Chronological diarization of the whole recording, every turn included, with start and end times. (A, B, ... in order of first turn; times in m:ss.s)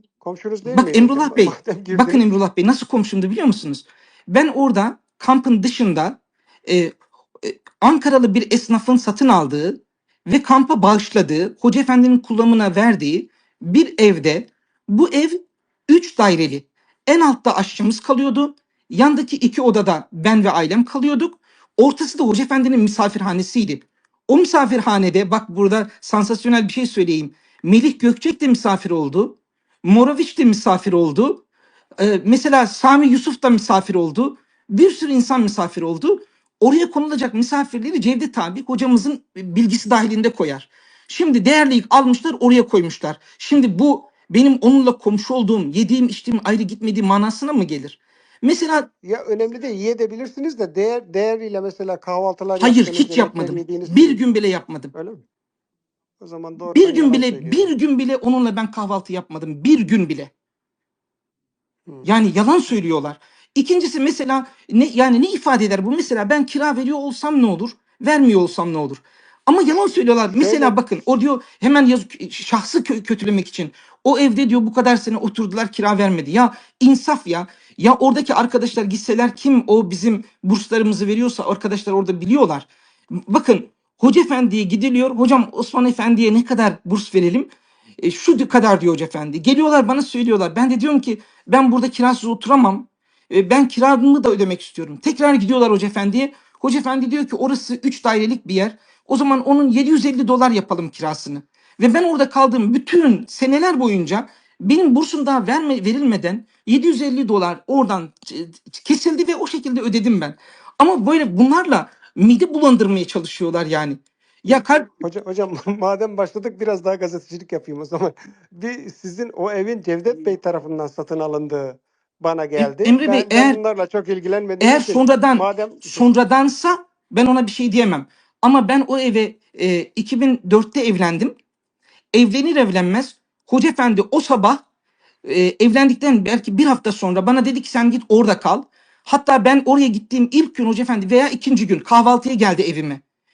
0:00.2-0:02.3 A
0:00.6-0:31.4 B
0:32.0-0:48.9 B
0:49.0-0:54.2 A
0:52.6-0:54.9 B
0:54.9-0:55.2 A
0:56.2-0:57.7 A
0:56.7-1:00.3 B
1:02.0-1:22.7 B
1:10.4-1:10.8 A
1:23.3-1:54.9 B
1:54.5-2:06.1 A
2:02.6-2:03.6 B
2:04.6-2:11.3 B
2:12.1-2:14.6 B
2:15.2-2:23.0 B